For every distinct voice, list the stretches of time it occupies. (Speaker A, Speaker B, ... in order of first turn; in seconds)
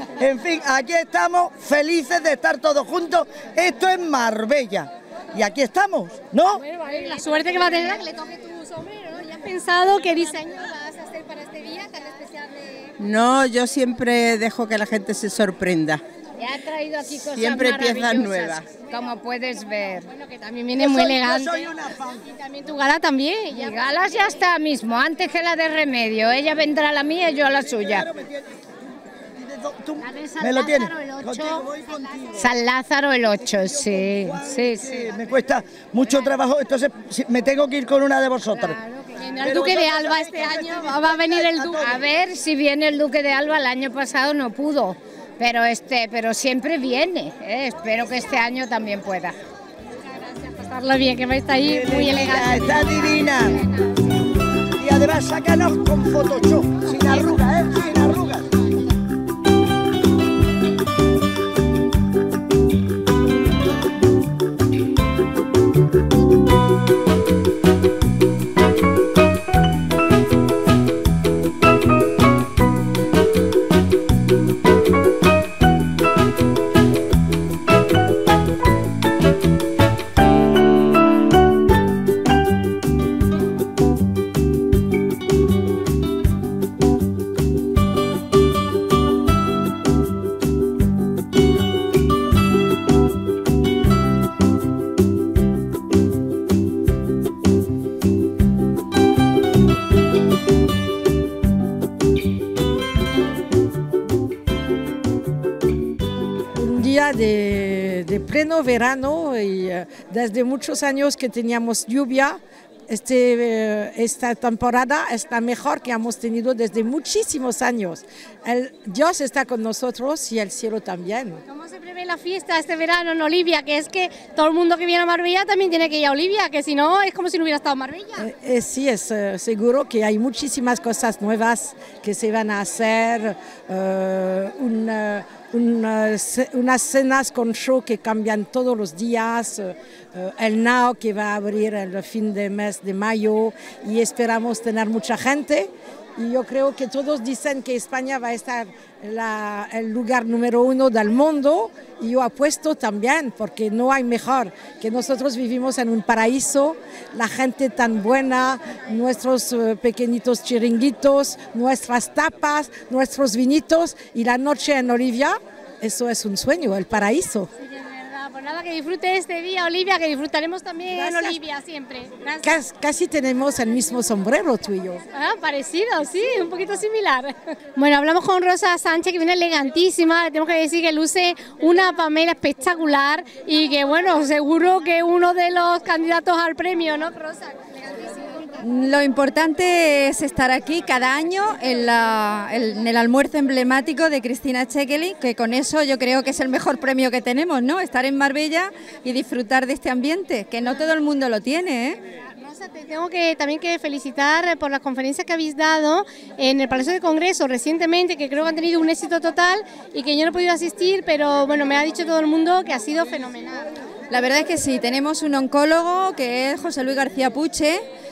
Speaker A: 0.2-6.6, 20.8-22.2, 27.6-28.4, 29.4-32.5, 33.6-38.8, 39.4-42.0, 51.6-53.6, 54.8-58.5
Speaker B: 6.6-12.9, 20.1-21.7, 22.2-24.4, 30.0-32.1, 38.5-41.9, 50.1-54.0, 121.5-128.3, 167.6-172.5, 175.1-188.5, 202.4-213.7
Speaker C: 13.0-16.0, 17.3-18.8
Speaker D: 16.4-20.1, 23.5-28.1, 32.4-35.0, 41.8-49.4
Speaker E: 106.5-121.4, 128.2-167.5, 170.9-171.4, 172.4-175.0
Speaker F: 188.6-202.0, 214.1-217.8